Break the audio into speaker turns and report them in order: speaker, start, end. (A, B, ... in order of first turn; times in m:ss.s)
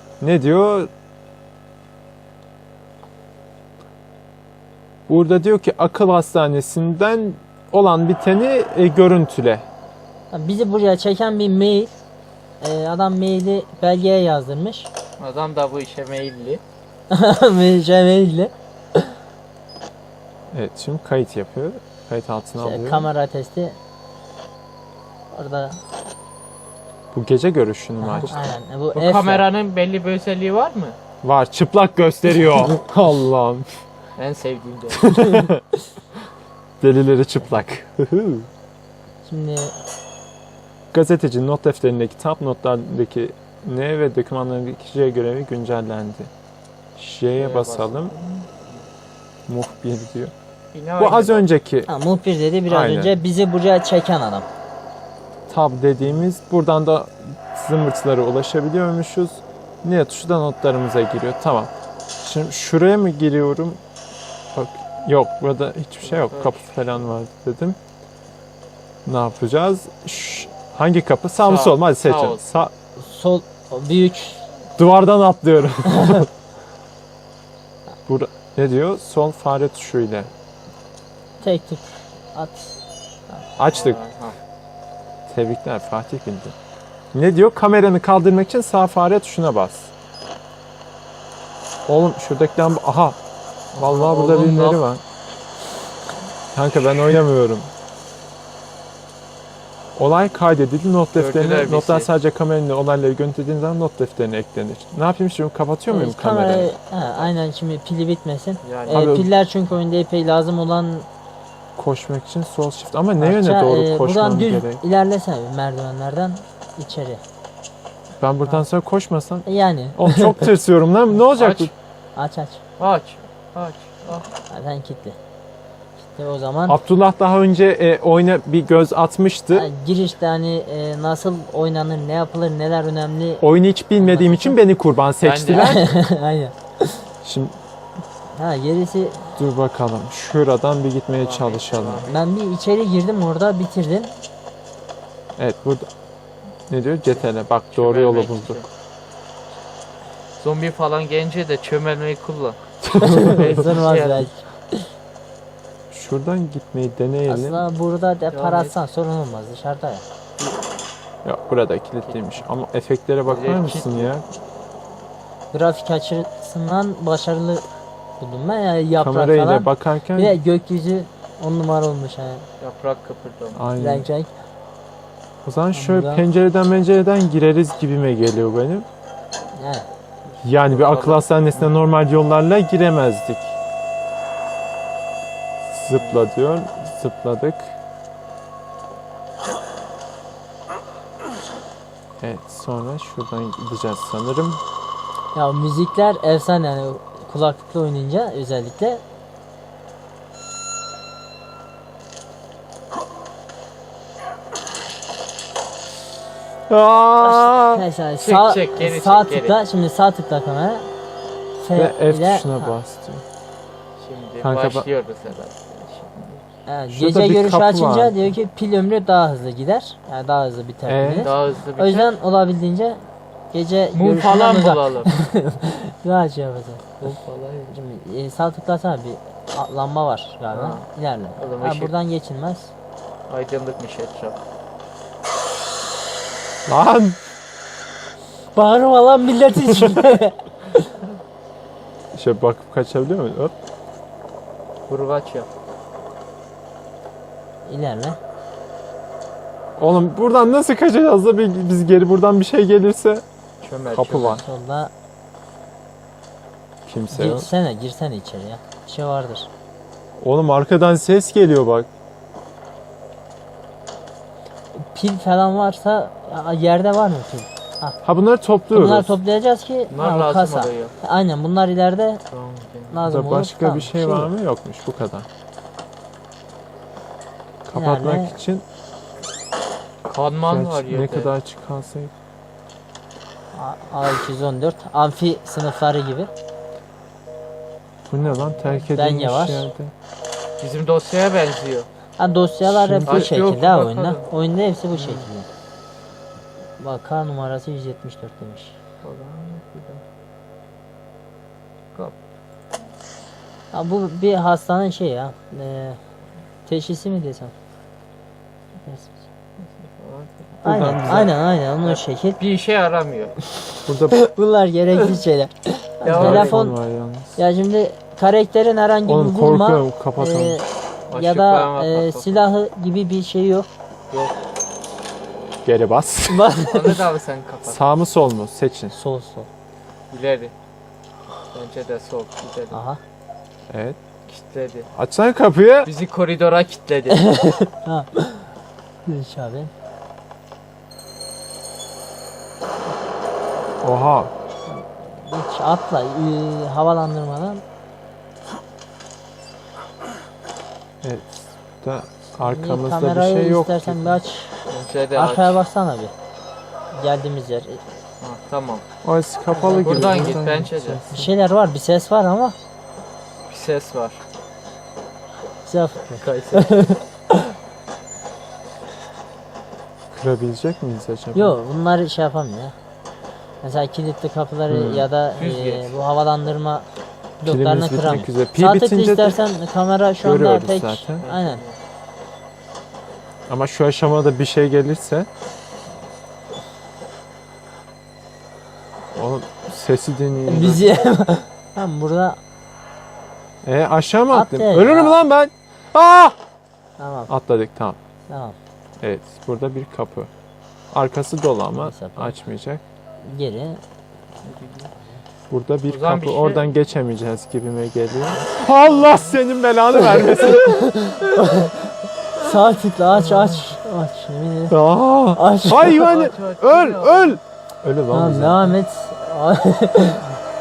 0:00.2-0:00.9 A
0:05.1-0:09.6 A
0:10.3-0:11.9 B
0:12.6-0:14.9 B
0:15.2-0:16.6 C
0:17.1-0:19.1 B
0:20.5-0:23.1 A
0:22.6-0:23.8 B
0:25.3-0:25.8 B
0:27.1-0:28.4 A
0:28.0-0:29.5 B
0:28.9-0:31.0 C
0:31.2-0:33.7 A
0:34.2-0:35.0 C
0:34.9-0:35.6 A
0:35.1-0:35.5 B
0:36.8-0:38.5 A
0:39.2-0:39.8 B
0:40.9-0:46.3 A
0:47.0-0:48.1 A
0:47.3-0:48.8 C
0:49.5-0:50.3 A
0:50.7-0:51.5 C
0:51.0-0:51.9 A
0:51.9-0:54.5 B
0:52.7-0:53.2 A
0:55.5-1:03.8 A
1:04.5-1:07.8 A
1:06.0-1:07.1 C
1:09.0-1:12.7 A
1:11.4-1:12.4 C
1:13.0-1:14.4 B
1:14.8-1:16.3 A
1:18.1-1:20.3 A
1:21.4-1:23.5 B
1:23.6-1:24.0 A
1:23.7-1:24.4 C
1:25.3-1:26.6 A
1:27.1-1:29.9 A
1:31.9-1:33.2 A
1:33.7-1:34.8 C
1:33.8-1:35.0 A
1:36.5-1:37.7 A
1:40.0-1:46.7 A
1:41.2-1:42.1 C
1:45.9-1:51.1 B
1:48.6-1:49.1 C
1:48.9-1:49.3 A
1:51.8-1:54.8 A
1:53.2-1:57.2 B
1:58.2-2:01.7 A
1:59.4-2:00.5 B
2:01.3-2:01.7 C
2:02.2-2:02.6 B
2:02.8-2:04.3 C
2:04.5-2:05.2 B
2:06.0-2:06.8 B
2:06.7-2:09.7 A
2:09.5-2:14.6 B
2:13.4-2:15.9 A
2:15.2-2:15.8 C
2:15.6-2:16.9 B
2:17.2-2:17.6 A
2:18.3-2:19.3 B
2:19.4-2:22.0 A
2:21.2-2:22.2 C
2:22.1-2:24.1 B
2:25.4-2:25.9 A
2:26.7-2:28.6 A
2:27.1-2:28.7 C
2:30.4-2:32.6 C
2:32.8-2:33.7 A
2:33.0-2:34.7 B
2:33.1-2:34.3 C
2:35.9-2:37.6 A
2:37.3-2:40.0 B
2:38.3-2:38.7 C
2:41.2-2:44.3 A
2:42.0-2:42.4 C
2:43.2-2:44.1 C
2:45.5-2:47.6 B
2:48.2-2:52.4 B
2:49.0-2:50.4 A
2:52.6-2:53.6 C
2:53.5-2:54.1 A
2:53.8-2:54.3 B
2:55.4-2:58.9 A
2:55.7-2:56.2 B
2:59.5-2:59.9 B
3:00.2-3:01.7 C
3:00.4-3:03.5 A
3:05.6-3:07.7 A
3:05.9-3:06.3 C
3:12.2-3:14.6 A
3:15.3-3:19.0 B
3:26.7-3:27.8 A
3:27.2-3:30.9 B
3:28.2-3:29.6 C
3:31.6-3:32.8 B
3:31.7-3:33.2 A
3:34.0-3:36.4 C
3:34.4-3:34.9 A
3:36.6-3:47.0 B
3:36.9-3:38.3 A
3:40.9-3:41.3 A
3:41.2-3:42.2 C
3:43.9-3:45.1 C
3:47.0-3:47.8 C
3:47.7-3:52.7 B
3:50.5-3:51.9 C
3:53.3-3:54.4 C
3:56.7-3:57.2 A
3:58.5-4:00.8 B
4:02.1-4:03.5 A
4:04.9-4:05.5 C
4:07.6-4:08.2 B
4:09.8-4:13.2 A
4:13.6-4:14.4 C
4:13.9-4:14.4 A
4:14.3-4:14.9 B
4:16.8-4:17.5 A
4:17.1-4:19.5 B
4:20.2-4:21.9 A
4:24.8-4:28.0 B
4:28.0-4:29.2 A
4:28.7-4:32.2 B
4:29.9-4:30.9 C
4:32.3-4:33.0 C
4:32.9-4:34.3 B
4:33.0-4:35.3 A
4:37.6-4:38.6 A
4:37.7-4:38.4 B
4:40.0-4:41.3 C
4:40.5-4:42.1 A
4:43.5-4:46.3 B
4:48.1-4:49.9 A
4:48.2-4:48.9 C
4:48.9-4:49.7 B
4:50.6-4:51.9 C
4:52.2-4:55.5 B
4:52.6-4:53.3 A
4:53.1-4:54.3 C
4:54.9-4:55.3 C
4:56.8-4:58.8 B
4:59.0-5:00.0 C
5:03.7-5:06.0 B
5:06.6-5:07.5 B
5:08.8-5:09.1 B
5:09.6-5:10.5 C
5:10.6-5:11.4 A
5:10.6-5:12.4 B
5:11.8-5:13.4 C
5:13.8-5:14.2 A
5:14.1-5:16.8 B
5:16.0-5:16.6 C
5:16.1-5:17.4 A
5:17.4-5:23.7 B
5:19.0-5:20.6 A
5:21.1-5:22.4 C
5:24.1-5:24.3 C
5:25.6-5:26.5 A
5:26.3-5:27.0 B
5:26.6-5:27.8 C
5:27.6-5:28.9 A
5:28.9-5:29.5 B
5:30.1-5:30.5 C
5:31.5-5:32.8 C
5:32.7-5:33.0 B
5:33.7-5:34.0 A
5:34.3-5:34.9 C
5:34.9-5:35.9 A
5:35.8-5:37.4 C
5:37.1-5:38.5 B
5:39.0-5:39.7 B
5:43.8-5:44.3 A
5:44.7-5:47.6 B
5:51.0-5:54.2 A
5:52.4-5:54.5 B
5:54.7-5:55.6 C
5:55.1-5:56.1 B
5:56.9-5:57.8 B
5:58.2-5:58.8 C
5:59.0-6:01.3 A
5:59.5-6:00.3 B
5:59.7-6:01.0 C
6:01.1-6:02.6 B
6:03.5-6:04.2 C
6:05.6-6:07.5 B
6:06.1-6:06.7 C
6:10.1-6:11.6 A
6:11.3-6:12.7 B
6:13.6-6:16.9 B
6:14.7-6:15.1 A
6:15.4-6:16.0 C
6:17.4-6:21.6 B
6:17.4-6:19.4 A
6:20.2-6:21.2 A
6:21.2-6:21.8 C
6:23.5-6:25.3 A
6:29.1-6:30.8 A
6:30.4-6:32.4 B
6:33.6-6:36.4 A
6:34.3-6:35.2 B
6:37.0-6:37.3 B
6:37.3-6:38.0 A
6:38.3-6:38.6 B
6:39.0-6:40.3 A
6:40.9-6:42.8 A
6:41.7-6:42.4 B
6:43.2-6:43.8 B
6:44.4-6:44.9 C
6:45.5-6:50.9 A
6:45.9-6:46.7 C
6:48.2-6:49.4 C
6:50.0-6:54.8 B
6:53.1-6:53.7 C
6:54.7-6:58.8 A
6:55.3-6:56.0 B
6:56.0-6:57.4 C
6:58.1-7:00.2 B